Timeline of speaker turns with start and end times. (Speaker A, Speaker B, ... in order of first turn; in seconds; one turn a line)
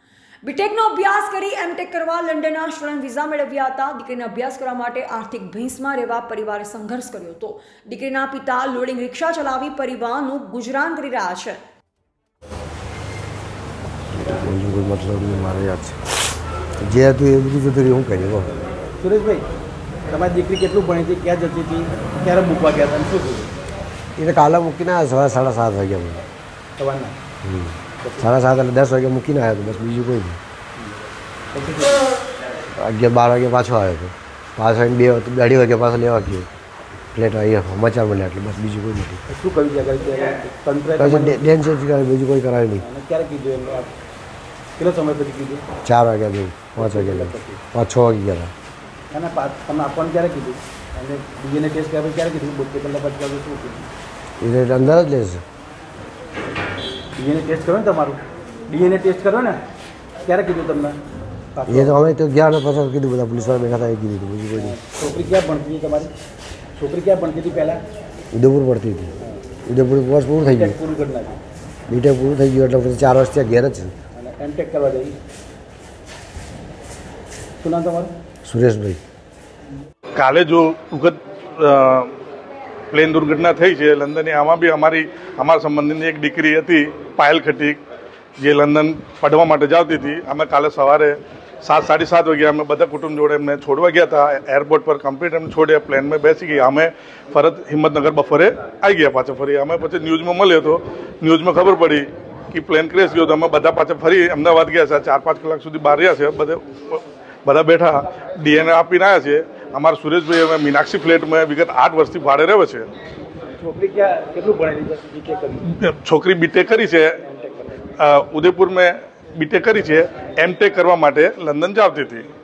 Speaker A: 0.4-11.6
Speaker B: 14.1-16.0
Speaker B: 16.8-18.6
Speaker C: 19.0-19.5
Speaker C: 20.1-23.5
Speaker B: 24.2-26.2
Speaker C: 26.8-27.1
Speaker B: 27.4-30.4
Speaker C: 28.0-28.3
Speaker C: 31.5-32.0
Speaker B: 32.8-36.5
Speaker B: 37.1-39.2
Speaker C: 39.3-41.5
Speaker B: 41.0-42.8
Speaker C: 42.8-43.9
Speaker C: 44.8-45.6
Speaker B: 45.8-48.5
Speaker C: 46.8-47.6
Speaker C: 49.1-53.9
Speaker B: 54.4-55.4
Speaker C: 57.2-59.6
Speaker C: 60.2-61.0
Speaker C: 61.5-62.0
Speaker B: 61.7-64.8
Speaker C: 64.6-66.1
Speaker C: 66.8-67.8
Speaker B: 68.3-69.1
Speaker B: 69.7-70.8
Speaker C: 70.5-71.4
Speaker B: 71.9-74.0
Speaker C: 74.2-75.2
Speaker C: 77.6-78.1
Speaker B: 78.5-79.0
Speaker D: 80.2-82.1
Speaker D: 82.9-87.8
Speaker D: 88.4-112.9
Speaker C: 113.6-115.8
Speaker D: 115.7-117.2
Speaker C: 117.2-117.9
Speaker D: 118.0-122.3